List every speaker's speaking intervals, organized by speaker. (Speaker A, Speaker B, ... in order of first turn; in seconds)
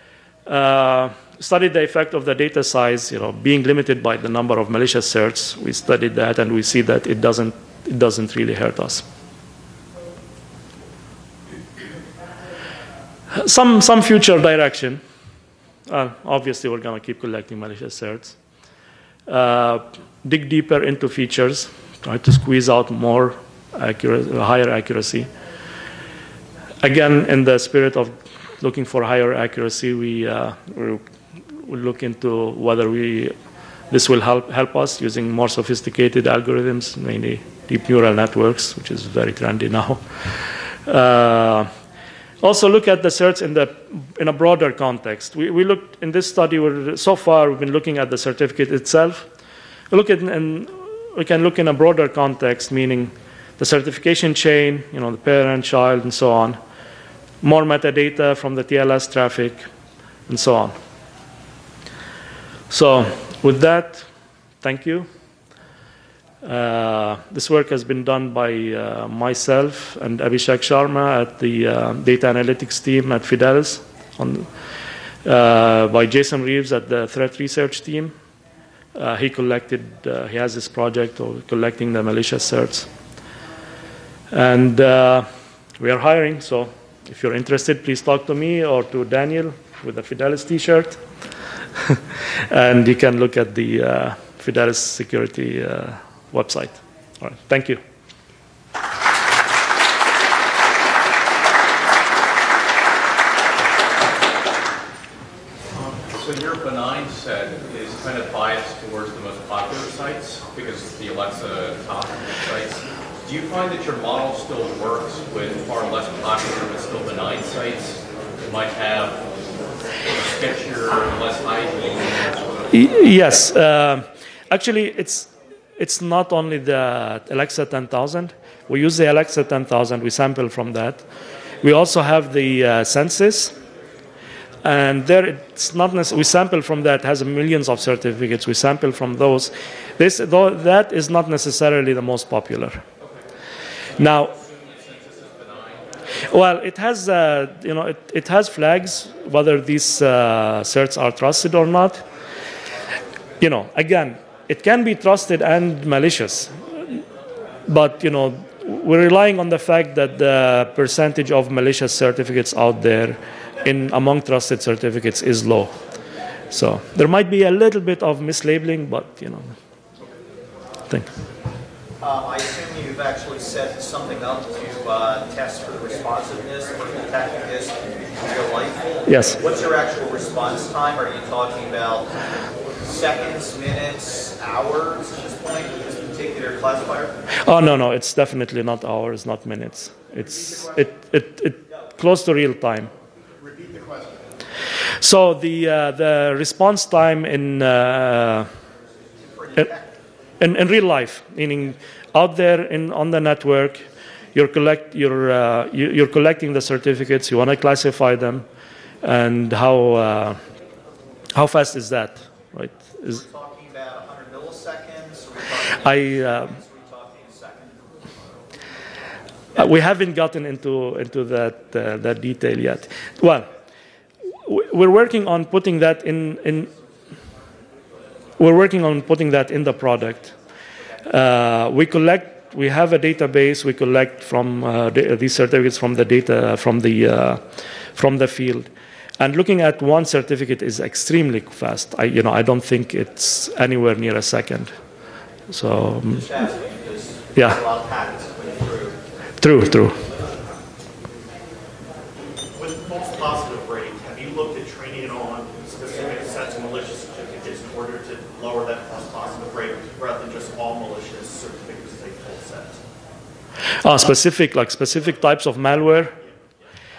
Speaker A: 0.5-9.0, 13.3-15.0, 15.9-18.4, 19.3-25.3, 26.8-31.0, 31.6-33.3, 33.9-41.7, 42.4-49.3, 49.9-56.6, 57.4-59.7, 60.3-60.8, 62.7-64.0, 64.6-65.1, 66.4-74.5, 75.2-78.1, 78.9-82.9, 84.3-85.3, 85.8-91.0, 91.8-97.8, 122.7-131.0, 131.6-133.5, 134.6-142.8, 144.0-144.3, 146.2-152.0, 153.4-157.0, 157.7-165.8, 166.5-169.5, 179.1-179.4, 187.4-192.9, 195.0-198.5, 200.4-208.4, 209.0-210.4, 211.3-213.2, 215.8-216.5, 219.6-223.5, 224.4-226.7, 228.4-230.3, 231.0-237.4, 237.9-244.7, 245.5-246.2, 249.4-250.0, 263.8-266.1
Speaker B: 105.7-119.3, 120.0-122.7, 144.2-146.0
Speaker C: 172.0-182.1, 182.8-187.2, 199.2-199.9, 213.1-218.2, 246.1-249.0
Speaker D: 252.5-262.8